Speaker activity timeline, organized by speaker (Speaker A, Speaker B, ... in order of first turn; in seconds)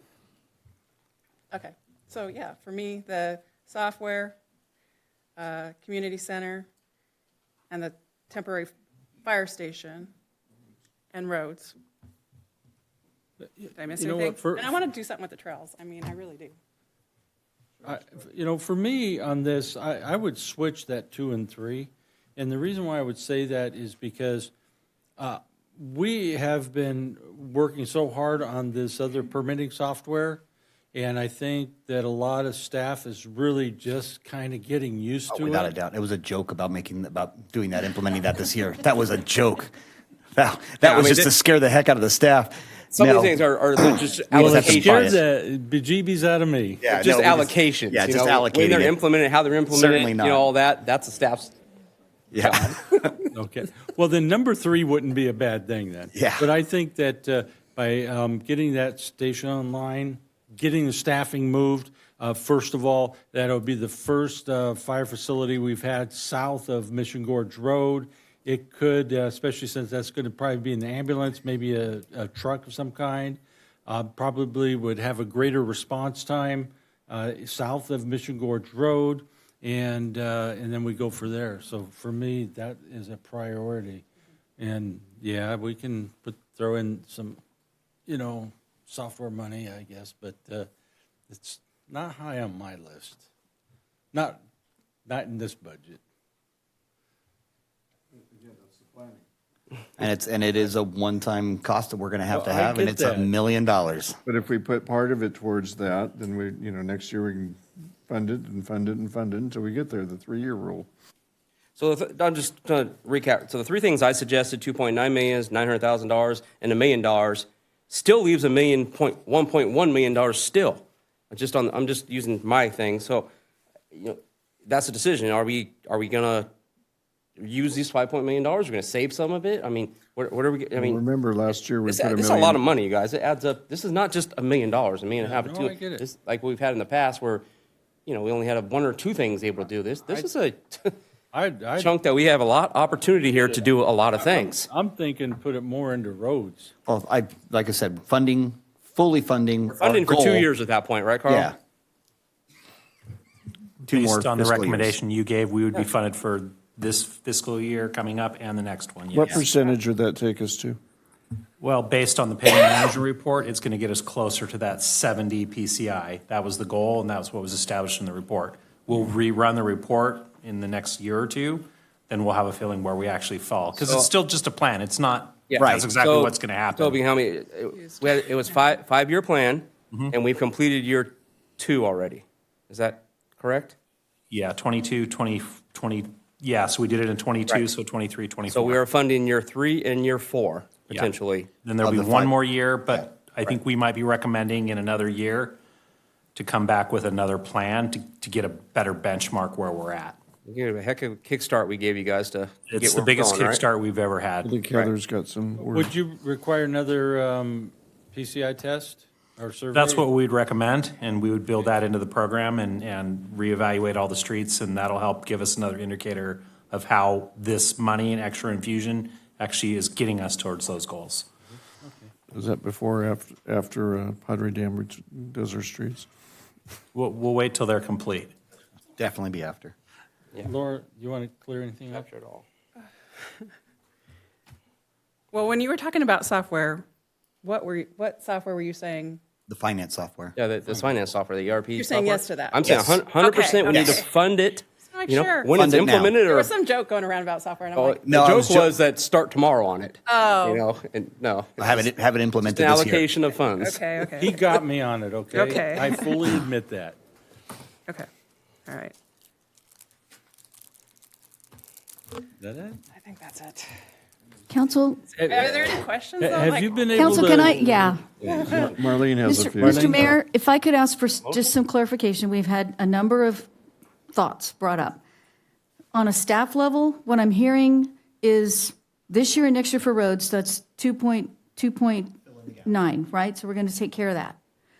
Speaker A: 1.5-4.4, 5.3-6.7, 7.7-10.1, 11.1-11.8, 13.8-16.6, 235.3-236.8, 237.4-239.2, 241.8-244.0, 244.9-245.5, 246.2-248.1, 250.1-250.7, 253.6-254.6, 255.3-256.1, 258.6-258.9, 262.9-263.7, 265.3-267.3
Speaker B: 13.4-14.9, 17.8-24.5, 25.2-30.4, 30.9-35.7, 44.3-46.9, 53.3-84.0, 84.6-87.4, 88.1-90.7, 91.3-93.2, 94.1-94.4, 95.0-96.0, 102.3-103.3, 135.2-136.0, 141.3-141.9, 144.2-146.7, 205.6-210.1, 221.8-222.1, 230.4-232.1, 254.0-257.0, 262.4-262.8, 265.2-267.9, 269.6-270.1
Speaker C: 35.4-39.7, 40.4-45.2, 46.8-49.0, 49.7-50.5, 52.3-53.0, 56.1-56.5, 100.0-104.2, 146.9-150.5, 151.3-151.5, 153.9-154.9, 175.6-175.9, 191.8-192.3, 229.0-229.7, 239.5-240.3, 242.6-243.0, 243.7-244.0, 245.6-246.2, 248.1-248.7, 251.6-253.1
Speaker D: 40.8-41.3, 42.9-45.2, 46.9-51.5, 52.4-53.2, 111.8-123.3, 123.9-126.5, 127.4-137.4, 138.1-140.9, 141.8-144.7, 149.7-151.5, 173.8-174.1, 175.5-183.8, 188.5-191.5, 200.4-203.6, 231.9-232.4, 240.3-246.5, 247.7-251.9, 252.4-253.8, 268.2-268.7, 271.2-271.5
Speaker E: 98.3-99.2, 104.2-110.9, 130.7-132.7, 159.1-160.8, 204.4-205.9, 222.3-226.1, 268.2-270.1
Speaker F: 153.9-159.4, 161.6-177.0, 184.3-188.8, 191.6-195.6, 196.3-200.2, 202.7-204.5, 209.7-221.3, 226.9-228.3
Speaker G: 264.5-265.1, 266.9-268.0, 269.2-273.5, 274.1-275.0, 275.9-284.4